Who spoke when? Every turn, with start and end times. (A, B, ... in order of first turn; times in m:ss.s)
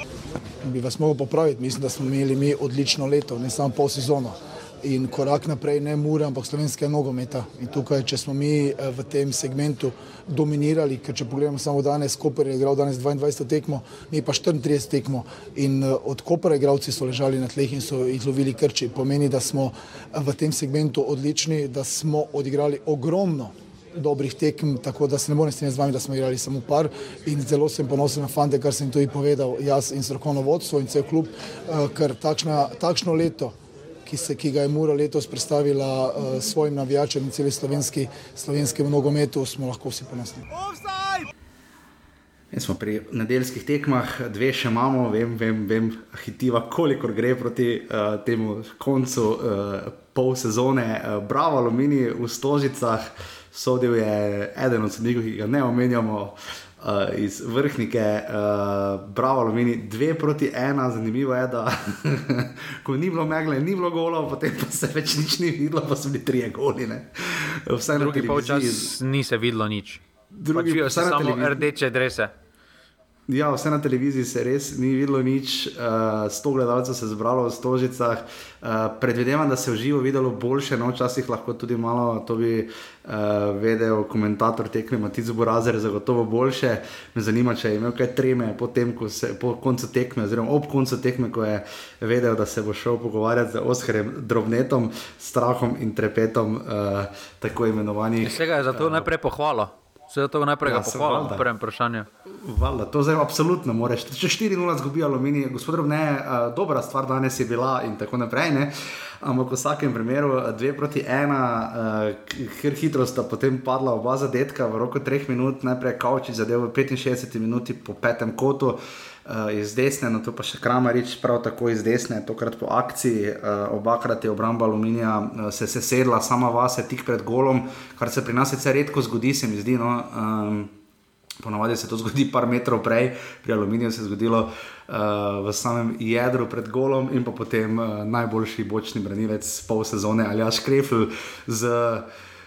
0:00.6-0:33.5 A
0:34.0-0:40.4 A
0:42.5-1:08.9 B
1:07.9-1:12.3 C
1:10.3-1:11.6 B
1:13.3-1:39.1 B
1:38.2-1:42.1 C
1:40.6-1:41.5 B
1:42.2-2:10.7 B
2:11.4-2:22.1 B